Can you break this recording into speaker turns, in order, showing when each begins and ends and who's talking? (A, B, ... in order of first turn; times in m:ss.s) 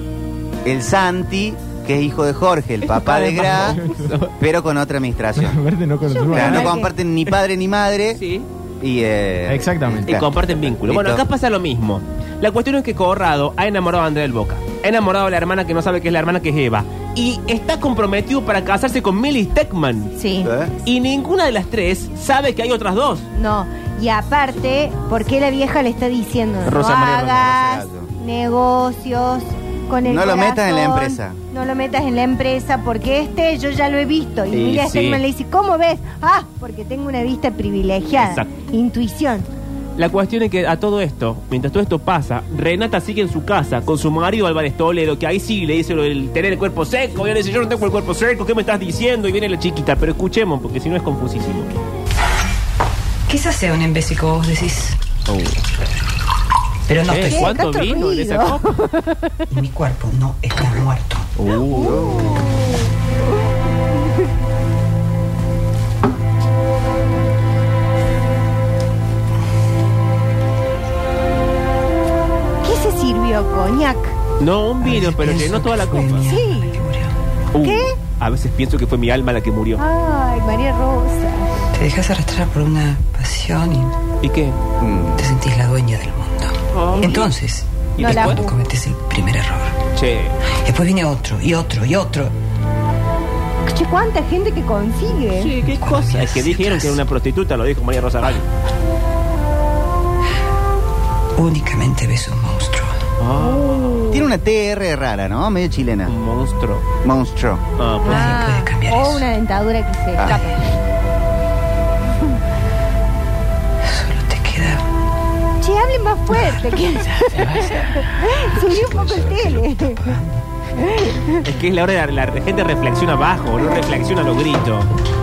0:00.6-0:03.8 A
0:02.9-0:04.3 B
0:03.8-0:04.1 C
0:04.4-0:05.6 A
0:05.4-0:06.8 C
0:06.0-0:06.9 D
0:06.3-0:08.2 A
0:08.1-0:08.5 B
0:08.8-0:10.3 A
0:09.5-0:10.2 C
0:10.1-0:20.1 B
0:10.9-0:11.2 A
0:20.2-0:20.5 D
0:20.4-0:20.7 A
0:20.8-0:23.3 B
0:23.3-0:39.5 D
0:26.6-0:27.4 B
0:26.8-0:28.1 A
0:30.0-0:31.4 A
0:34.5-0:35.2 B
0:38.2-0:38.5 B
0:40.0-0:51.7 B
0:53.3-0:55.0 E
0:55.3-0:55.6 B
0:56.9-0:57.6 E
0:57.0-0:58.8 B
0:57.2-0:59.4 D
0:59.5-1:01.3 E
1:01.4-1:02.1 B
1:01.7-1:02.7 D
1:01.7-1:02.3 A
1:12.6-1:14.2 D
1:14.4-1:16.3 B
1:14.8-1:17.2 E
1:16.2-1:16.8 D
1:17.5-1:19.8 B
1:17.6-1:18.0 D
1:19.8-1:21.5 D
1:21.7-1:24.0 E
1:24.2-1:24.6 B
1:24.8-1:25.2 A
1:25.2-1:29.8 E
1:26.7-1:27.3 B
1:28.0-1:28.4 B
1:28.0-1:28.4 D
1:30.0-1:30.4 B
1:30.6-1:32.3 E
1:33.7-1:35.5 D
1:35.4-1:38.5 B
1:35.6-1:37.0 E
1:41.4-1:42.9 E
1:43.2-1:44.2 B
1:43.4-1:44.2 D
1:44.1-1:46.1 A
1:46.1-1:46.9 B
1:47.0-1:47.6 A
1:47.8-1:48.4 B
1:48.0-1:49.3 E
1:48.0-1:50.6 D
1:53.8-1:54.8 E
1:55.6-2:00.2 D
1:56.5-2:00.4 E
2:00.8-2:01.4 D
2:01.4-2:04.9 B